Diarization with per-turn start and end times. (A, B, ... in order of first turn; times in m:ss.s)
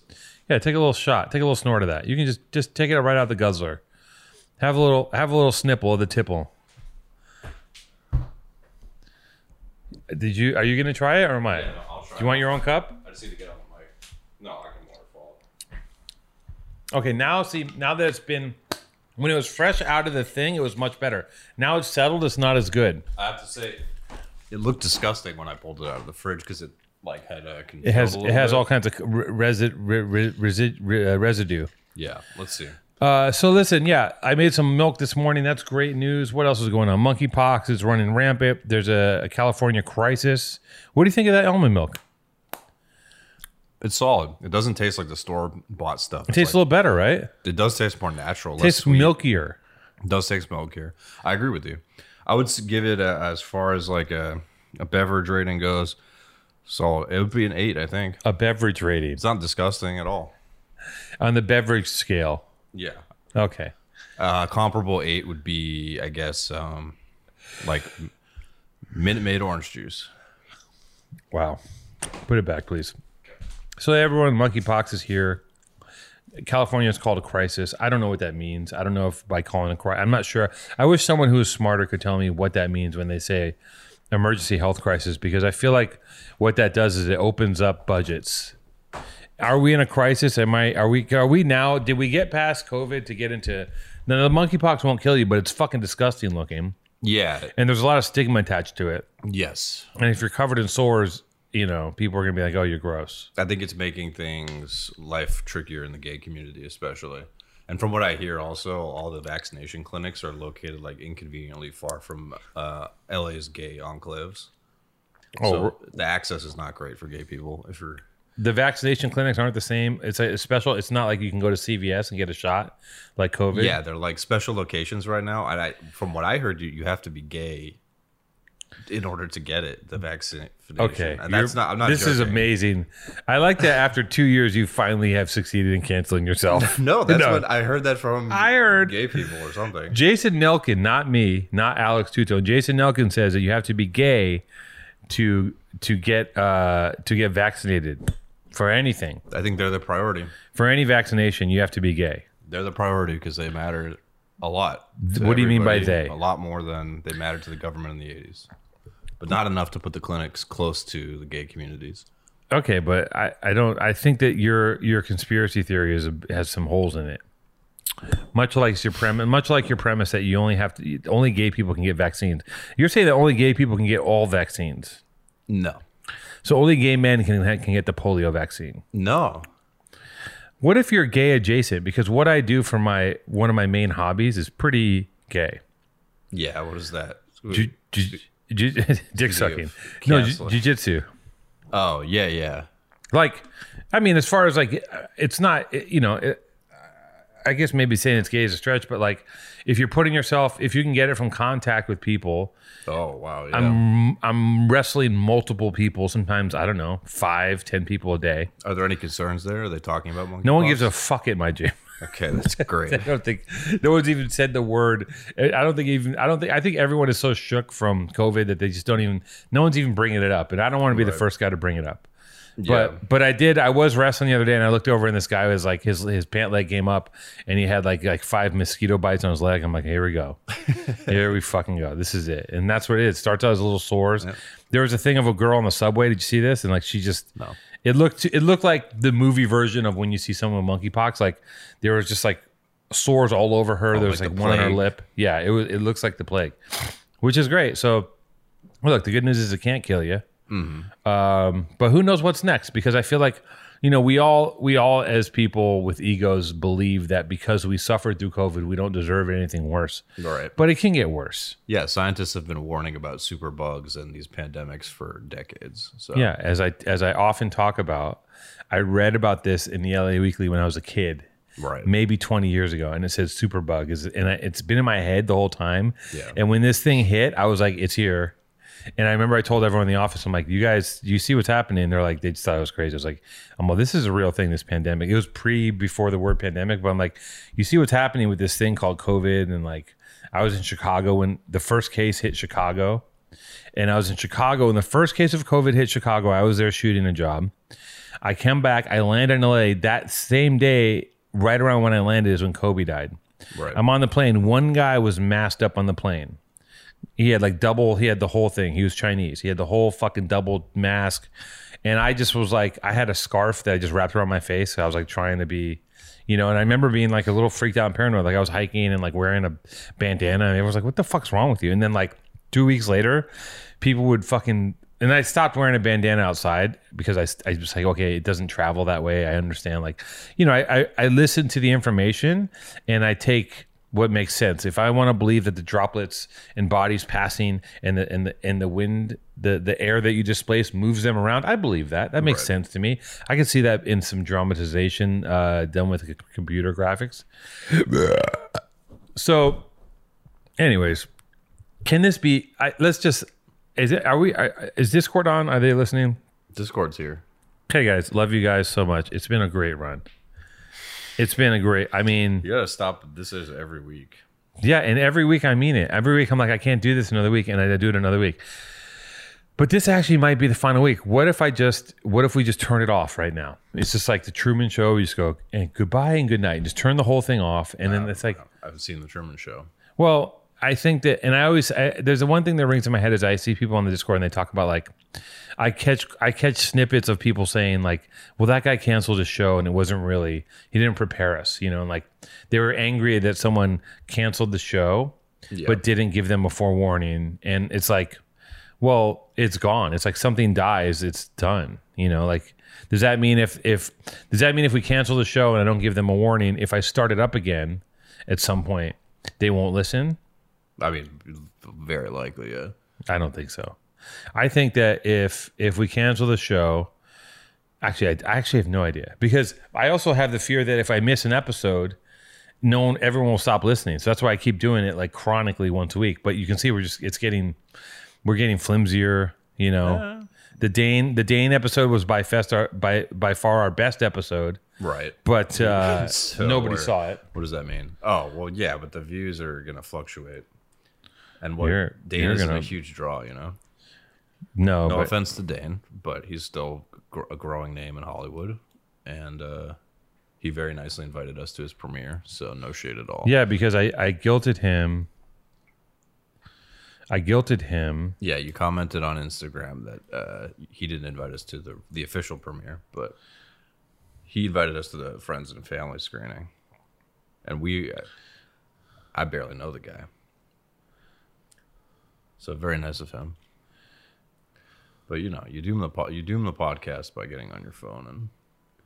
0:00.5-0:03.8 A
0:04.6-0:06.5 A
0:10.1-0:13.0 A
0:11.5-0:15.4 B
0:16.9-0:18.6 A
0:19.2-0:23.0 A
0:23.2-0:23.8 B
0:24.5-0:28.6 B
0:27.8-0:31.7 A
0:31.9-0:32.8 B
0:33.0-0:42.0 A
0:43.8-0:46.6 B
0:46.3-0:47.3 A
0:47.4-0:49.2 B
0:48.6-0:49.6 A
0:50.0-0:56.0 B
0:56.6-0:58.2 B
0:58.2-0:59.2 A
0:59.2-1:00.3 B
1:01.2-1:02.4 A
1:02.7-1:03.0 B
1:03.3-1:03.7 A
1:04.2-1:07.0 B
1:07.6-1:08.1 B
1:08.9-1:10.1 B
1:11.3-1:11.6 A
1:12.2-1:12.9 A
1:13.8-1:15.4 A
1:16.4-1:23.5 A
1:24.1-1:28.5 A
1:29.4-1:36.8 A
1:37.0-1:37.5 B
1:37.5-1:39.1 A
1:39.2-1:39.9 B
1:40.0-1:43.3 A
1:43.4-1:54.5 B
1:55.4-1:55.8 A
1:55.4-1:58.0 B
1:58.4-2:03.8 A
2:03.5-2:07.8 B
2:08.9-2:12.5 B
2:10.8-2:17.4 A
2:16.5-2:20.0 B
2:18.3-2:19.0 A
2:19.9-2:24.4 A
2:25.1-2:29.2 A
2:29.3-2:30.3 B
2:30.5-2:32.2 A
2:32.4-2:38.5 B
2:35.0-2:36.1 A
2:39.2-2:42.0 B
2:42.5-2:47.2 A
2:48.3-2:55.0 A
2:55.5-2:55.8 B
2:56.4-2:58.8 A
2:58.9-2:59.5 B
3:00.6-3:05.6 A
3:06.3-3:08.2 B
3:07.5-3:11.1 A
3:09.2-3:10.6 B
3:11.7-3:12.7 B
3:13.1-3:16.4 A
3:17.4-3:22.5 A
3:22.8-3:23.8 B
3:23.5-3:28.5 A
3:28.6-3:30.9 B
3:30.4-3:31.7 A
3:32.0-3:33.1 B
3:32.6-3:42.1 A
3:40.9-3:41.2 B
3:42.6-3:43.0 B
3:42.6-3:50.4 A
3:50.7-3:51.2 B
3:51.0-4:08.1 A
4:03.9-4:04.8 B
4:08.8-4:10.2 A
4:10.5-4:10.9 B
4:11.0-4:20.0 A
4:20.2-4:20.6 B
4:20.6-4:21.6 A
4:21.7-4:26.3 B
4:26.1-4:31.2 A
4:31.6-4:31.9 B
4:31.8-4:38.4 A
4:36.1-4:36.4 B
4:39.0-4:53.0 A
4:53.8-4:57.5 A
4:58.2-5:03.2 A
5:03.5-5:03.8 B
5:03.7-5:06.4 A
5:07.2-5:11.3 A
5:11.8-5:23.3 A
5:23.8-5:48.5 A
5:42.2-5:42.5 B
5:49.1-5:49.7 A
5:50.6-5:51.1 A
5:51.8-5:56.2 A
5:56.5-5:57.2 B
5:57.7-6:00.0 A
6:01.2-6:02.5 A
6:02.4-6:04.2 B
6:04.6-6:08.4 A
6:09.6-6:18.4 A
6:17.8-6:19.7 B
6:20.0-6:24.9 A
6:25.6-6:38.2 A
6:35.5-6:35.8 B
6:38.8-6:50.2 A
6:50.8-6:52.7 B
6:53.1-6:53.8 A
6:54.4-6:56.9 A
6:57.8-7:02.0 A
7:02.6-7:07.6 A
7:08.2-7:10.0 A
7:09.8-7:10.3 B
7:10.6-7:14.6 A
7:14.8-7:20.5 B
7:15.2-7:17.2 A
7:21.4-7:23.6 B
7:21.6-7:22.7 A
7:24.6-7:25.1 A
7:24.9-7:29.8 B
7:30.4-7:33.3 B
7:33.2-7:35.1 A
7:37.1-7:38.2 A
7:38.2-7:43.2 B
7:44.2-7:46.5 B
7:47.4-7:48.0 B
7:49.1-7:50.1 B
7:52.4-7:53.4 B
7:55.1-7:58.3 B